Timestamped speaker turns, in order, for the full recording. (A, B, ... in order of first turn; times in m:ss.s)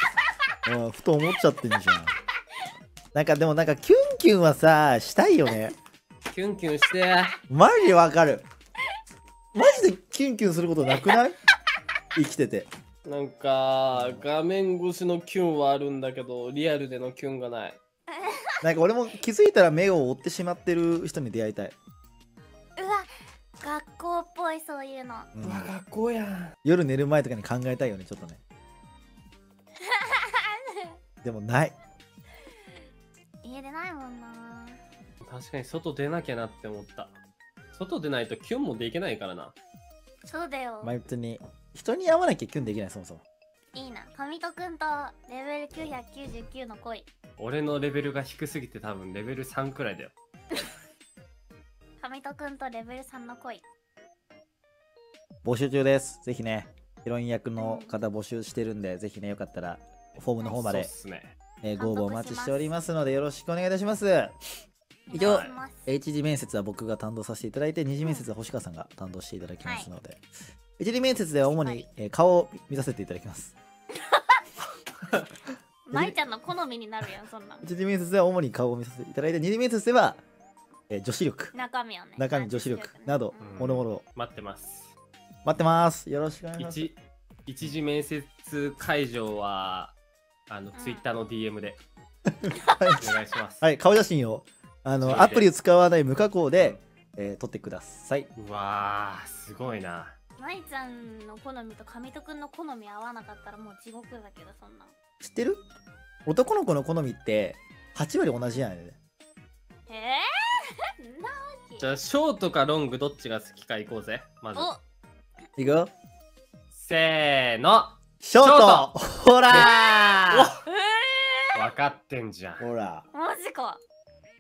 0:00.7-0:02.2 A
0:03.1-0:05.7 A
0:06.3-0:07.4 B
0:07.5-0:08.4 A
0:09.5-0:11.4 A
0:12.2-0:12.7 A
0:13.0-0:17.8 B
0:13.9-0:14.2 A
0:18.2-0:18.5 C
0:18.6-0:21.8 A
0:22.8-0:23.1 C
0:23.6-0:25.3 C
0:25.3-0:25.7 A
0:25.4-0:26.6 B
0:26.6-0:28.4 A
0:29.8-0:31.0 C
0:31.2-0:31.8 A
0:33.4-0:34.8 C
0:35.2-0:37.2 B
0:37.7-0:39.6 B
0:40.3-0:41.0 C
0:40.8-0:43.2 A
0:43.7-0:47.1 C
0:47.4-0:50.1 B
0:52.0-0:53.6 C
0:55.4-1:00.9 A
0:57.6-0:57.9 C
1:00.5-1:01.3 B
1:01.6-1:04.4 A
1:01.8-1:02.7 C
1:05.1-1:05.9 C
1:05.1-1:10.2 A
1:05.2-1:05.6 B
1:08.0-1:08.3 C
1:09.6-1:09.9 C
1:10.8-1:13.6 A
1:11.4-1:11.9 C
1:14.1-1:14.4 C
1:15.9-1:17.6 C
1:15.9-1:16.2 A
1:17.6-1:20.2 A
1:20.9-1:21.6 A
1:21.5-1:23.6 C
1:22.2-1:24.0 A
1:23.4-1:25.0 B
1:25.4-1:26.9 A
1:26.6-1:30.0 B
1:30.5-1:31.8 B
1:30.8-1:31.0 C
1:32.4-1:33.1 A
1:32.6-1:33.0 C
1:33.0-1:33.6 B
1:33.6-1:38.3 A
1:35.0-1:35.5 B
1:38.4-1:40.2 B
1:40.4-1:44.9 C
1:45.2-1:45.6 A
1:46.3-1:49.0 A
1:49.9-1:51.9 C
1:51.8-1:54.7 B
1:54.6-1:54.8 C
1:55.6-1:55.9 A
1:56.7-1:58.9 B
1:58.2-2:00.5 A
1:59.5-2:01.6 C
2:00.3-2:00.6 B
2:01.6-2:02.7 B
2:02.6-2:03.1 A
2:03.1-2:03.8 C